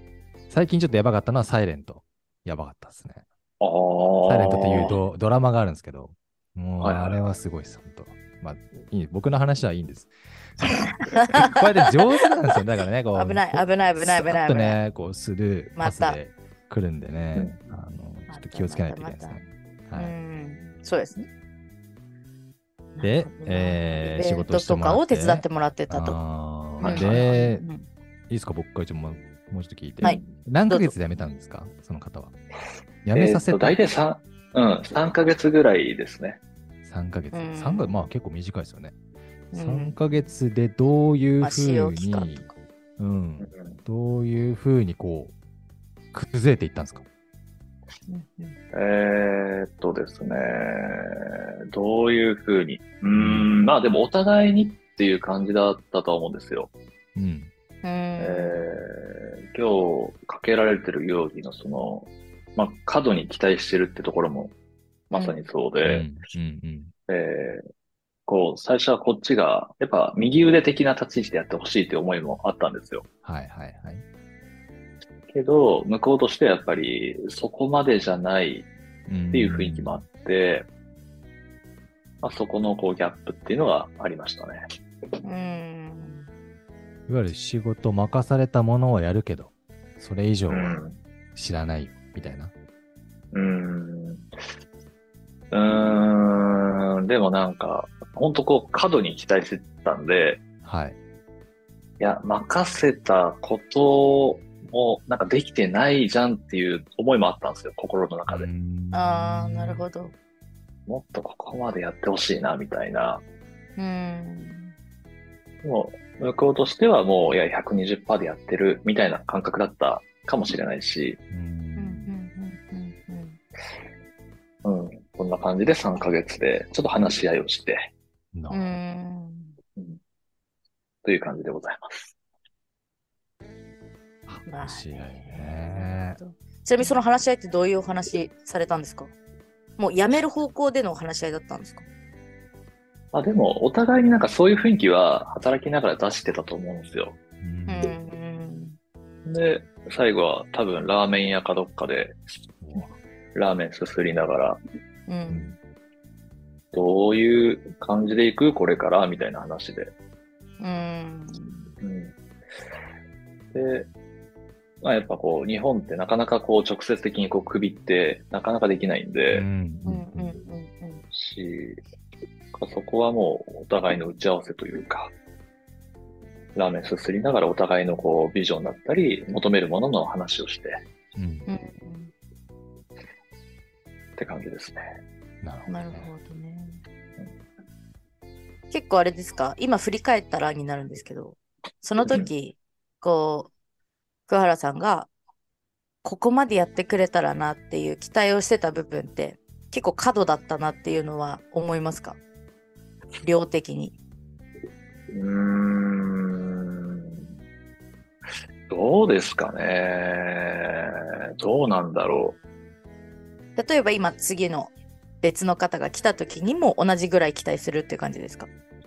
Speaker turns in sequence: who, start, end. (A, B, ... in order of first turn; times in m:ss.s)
0:00.5-0:03.2 A
0:03.6-0:05.0 B
0:04.3-0:10.7 A
0:06.8-0:07.2 B
0:11.0-0:11.6 C
0:11.3-0:20.2 A
0:13.1-0:14.8 C
0:15.8-0:16.2 C
0:17.4-0:17.7 B
0:18.3-0:21.3 C
0:23.0-0:26.2 C
0:23.0-0:27.6 A
0:26.8-0:27.4 B
0:26.8-0:27.9 C
0:28.3-0:32.3 A
0:30.0-0:30.9 C
0:33.0-0:33.8 A
0:33.1-0:36.4 B
0:36.8-0:39.0 A
0:37.3-0:38.0 C
0:39.5-0:42.5 A
0:39.5-0:40.3 C
0:41.4-0:42.5 C
0:43.0-0:45.3 A
0:43.4-0:43.8 B
0:46.1-0:47.0 A
0:48.1-0:48.6 C
0:48.7-0:56.7 B
0:53.1-0:53.5 A
0:57.2-0:57.5 A
0:57.8-0:58.7 C
0:58.2-1:04.5 B
1:05.1-1:06.1 B
1:05.1-1:05.4 C
1:05.8-1:06.9 A
1:07.1-1:07.6 B
1:08.3-1:13.1 B
1:13.2-1:14.0 A
1:15.3-1:18.7 B
1:19.1-1:20.0 A
1:19.3-1:20.7 B
1:22.2-1:24.6 B
1:25.2-1:26.3 C
1:27.1-1:30.8 A
1:30.5-1:31.0 B
1:31.4-1:32.5 A
1:33.3-1:34.3 B
1:35.5-1:40.4 B
1:40.6-1:41.0 A
1:42.0-1:48.5 B
1:48.3-1:49.8 A
1:48.9-1:50.1 C
1:50.9-1:53.2 B
1:53.8-1:54.7 C
1:55.6-2:01.2 B
2:01.3-2:02.1 A
2:01.8-2:03.4 C
2:04.6-2:07.9 B
2:08.3-2:08.8 A
2:08.5-2:09.6 C
2:11.0-2:12.1 B
2:14.3-2:16.2 A
2:14.5-2:19.1 C
2:19.8-2:21.8 C
2:23.1-2:27.2 B
2:27.4-2:28.0 A
2:27.7-2:28.8 C
2:29.3-2:32.2 B
2:32.6-2:32.9 A
2:33.4-2:34.6 B
2:35.1-2:35.6 C
2:35.3-2:35.5 A
2:36.7-2:39.9 B
2:40.6-2:41.7 C
2:41.8-2:42.1 B
2:43.5-2:43.9 B
2:44.8-2:49.5 B
2:49.3-2:50.4 A
2:49.8-2:51.0 C
2:51.1-2:51.8 B
2:52.5-2:55.1 B
2:56.6-3:00.8 B
3:01.2-3:01.5 A
3:01.5-3:02.1 C
3:04.2-3:04.8 B
3:05.4-3:06.1 A
3:05.7-3:06.8 C
3:08.7-3:13.5 C
3:14.3-3:15.1 C
3:16.0-3:22.2 C
3:23.2-3:24.0 C
3:25.1-3:27.3 B
3:28.7-3:32.4 B
3:33.6-3:38.5 C